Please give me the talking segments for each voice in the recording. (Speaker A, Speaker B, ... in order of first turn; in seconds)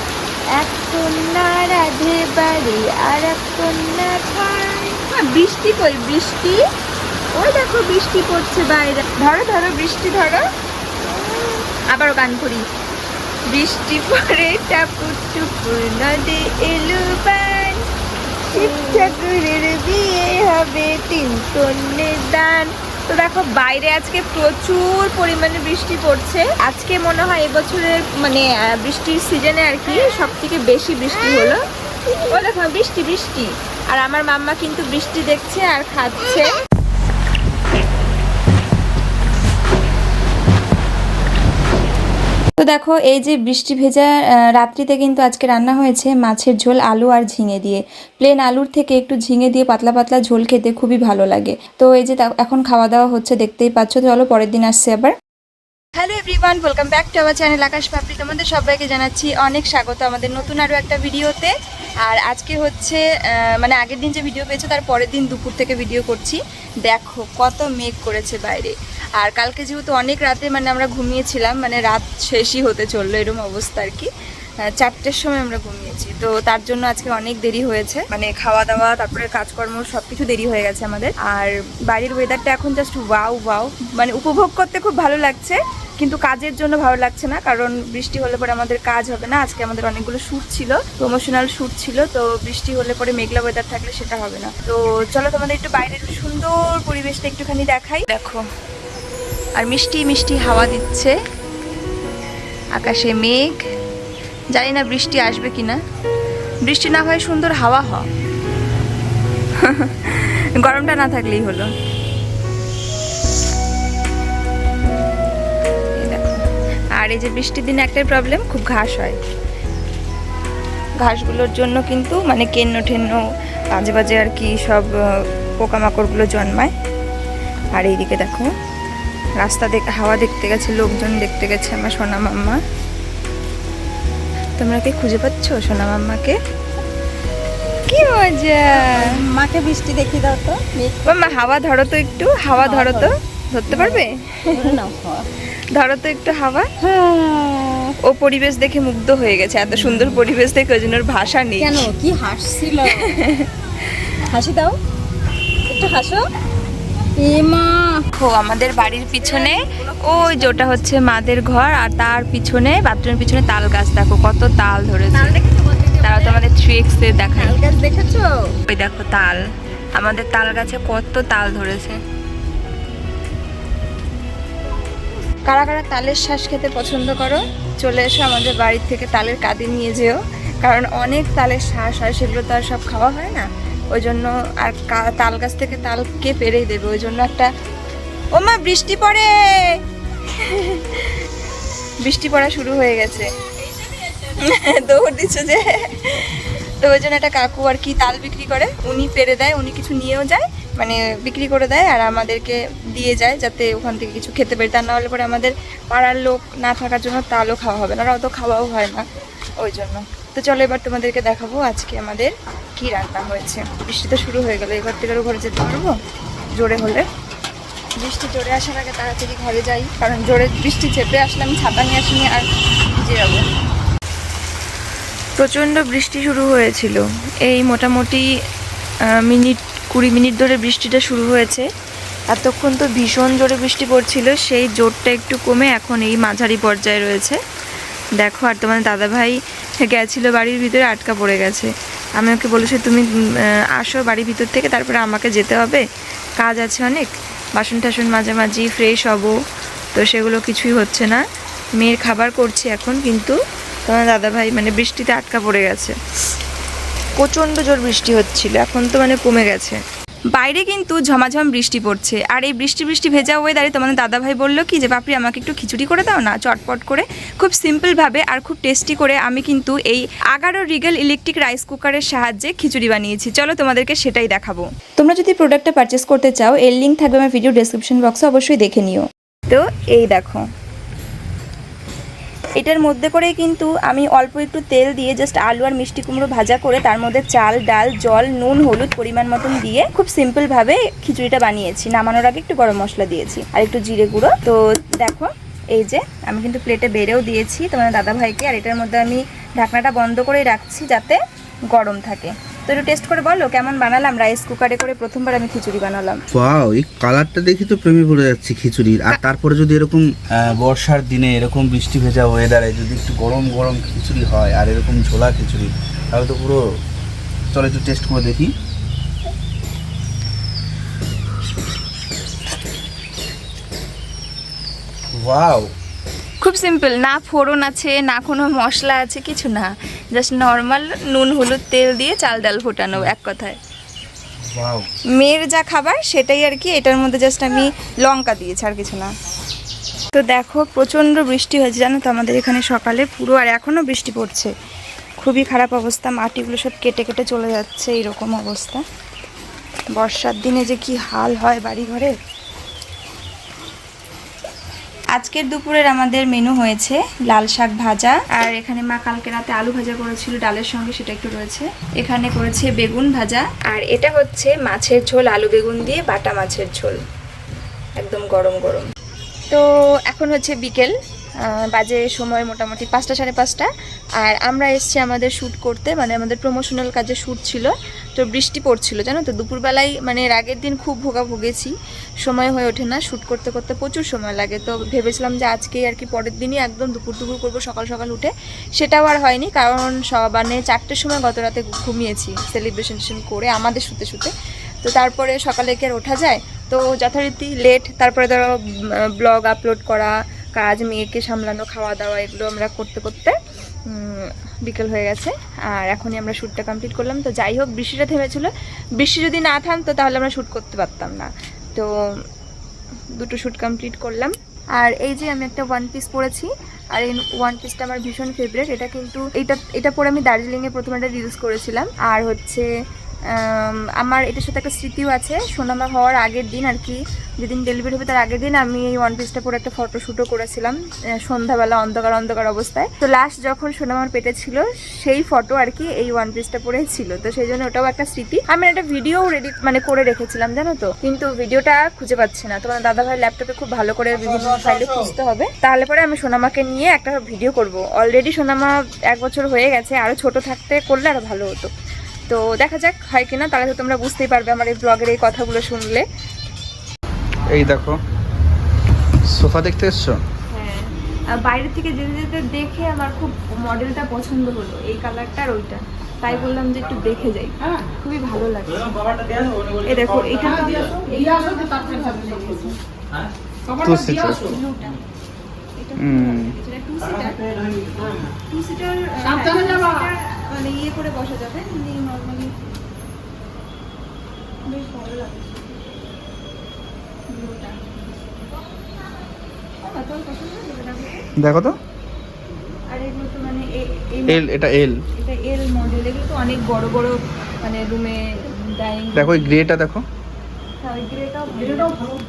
Speaker A: 0.6-6.6, 7.3-10.4, 11.0-12.6, 13.5-17.8, 18.5-31.6, 32.3-36.5, 42.6-55.1, 56.0-61.5, 62.0-74.1, 74.7-98.4, 99.6-101.2, 102.7-103.6, 104.5-105.8, 106.6-108.0, 109.6-111.7, 116.0-116.4, 117.0-119.2, 121.0-123.2, 123.8-126.7, 127.7-128.5, 129.4-132.6, 134.6-136.4, 137.8-139.1, 141.0-144.7, 145.7-146.7, 148.0-151.9, 152.8-154.1, 158.2-165.4, 166.0-167.6, 168.6-169.4, 169.9-172.0, 175.5-187.5, 188.3-191.2, 192.0-193.3, 193.8-209.1, 209.6-215.9, 216.5-217.1, 218.0-223.4, 225.4-228.3, 229.1-231.7, 232.3-237.4, 238.2-243.1, 243.7-245.8, 246.4-249.3, 249.9-251.2, 251.8-255.9, 257.2-259.8, 260.3-280.4, 282.6-301.2, 301.7-306.2, 326.4-333.6, 335.2-339.1, 340.1-344.5, 345.2-348.8, 349.9-352.1, 355.1-367.0, 368.0-368.9, 369.5-373.7, 374.2-381.7, 382.2-394.3, 394.8-398.5, 399.2-403.4, 403.9-411.9, 413.1-422.7, 423.3-451.7, 452.3-456.0, 460.5-469.1, 469.7-472.8, 474.1-475.0, 475.8-482.5, 484.6-485.8, 487.3-488.0, 489.8-491.3, 492.9-494.5, 495.1-499.6, 500.8-502.1
Speaker B: 18.5-19.1, 138.7-141.3, 142.6-143.1, 143.7-145.3, 146.8-147.9, 151.6-153.2, 154.3-154.8, 155.7-156.2, 157.2-158.1, 160.0-160.3, 165.1-166.4, 167.4-168.3
Speaker C: 306.3-316.6, 317.5-318.5, 325.2-325.7, 334.5-334.9, 457.5-458.0, 459.3-460.2, 473.8-474.6, 476.0-476.6, 491.4-491.8, 494.3-495.0, 499.1-500.0